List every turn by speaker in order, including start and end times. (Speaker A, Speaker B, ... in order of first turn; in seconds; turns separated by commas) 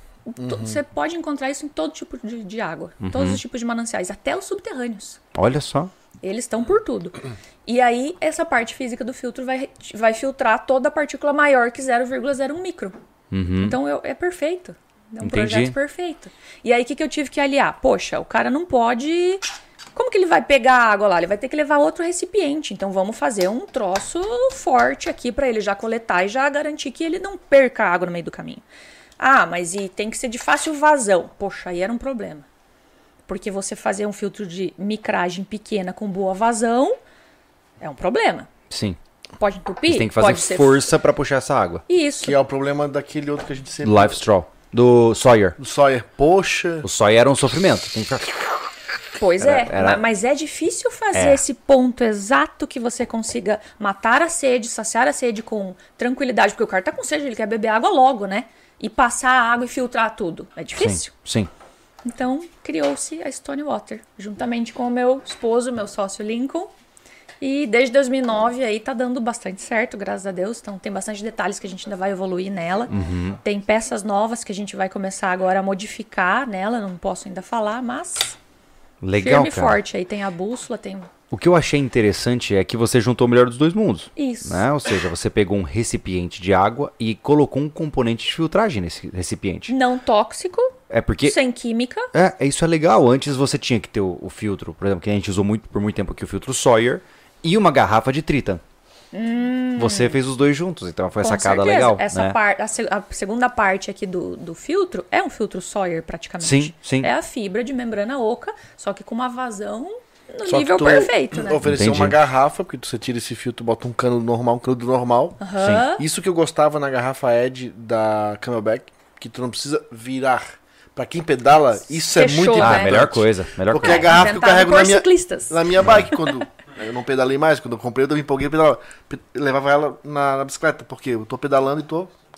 Speaker A: 0.3-5.2, Speaker B: 0.4-0.8, Speaker C: 3.0-3.4, Speaker C: 5.3-5.9, Speaker A: 6.2-12.9, Speaker C: 13.3-13.8, Speaker A: 13.6-19.4, Speaker C: 15.2-15.8, Speaker A: 19.9-28.6, Speaker A: 29.2-32.4, Speaker A: 33.3-37.0, Speaker A: 37.8-38.5, Speaker C: 38.7-39.0, Speaker A: 39.4-40.9, Speaker C: 39.9-41.8, Speaker A: 41.9-42.4, Speaker B: 42.2-44.2, Speaker C: 43.8-45.5, Speaker B: 45.6-46.9, Speaker C: 46.8-48.5, Speaker A: 49.2-61.1, Speaker C: 49.4-50.0, Speaker C: 51.1-51.4, Speaker C: 60.8-61.5, Speaker A: 62.0-66.7, Speaker A: 67.4-78.4, Speaker C: 72.9-73.4, Speaker C: 79.0-79.8, Speaker A: 79.2-81.1, Speaker C: 81.3-89.7, Speaker A: 84.2-84.6, Speaker A: 89.7-92.1, Speaker C: 90.9-91.4, Speaker C: 92.1-98.6, Speaker A: 99.1-100.2, Speaker C: 99.8-102.4, Speaker A: 101.2-111.6, Speaker C: 106.4-107.1, Speaker B: 110.5-115.4, Speaker C: 111.6-112.2, Speaker A: 115.4-116.0, Speaker C: 115.6-115.9, Speaker B: 116.0-132.1, Speaker A: 122.0-123.1, Speaker C: 122.6-124.1, Speaker A: 123.8-126.2, Speaker C: 125.8-126.1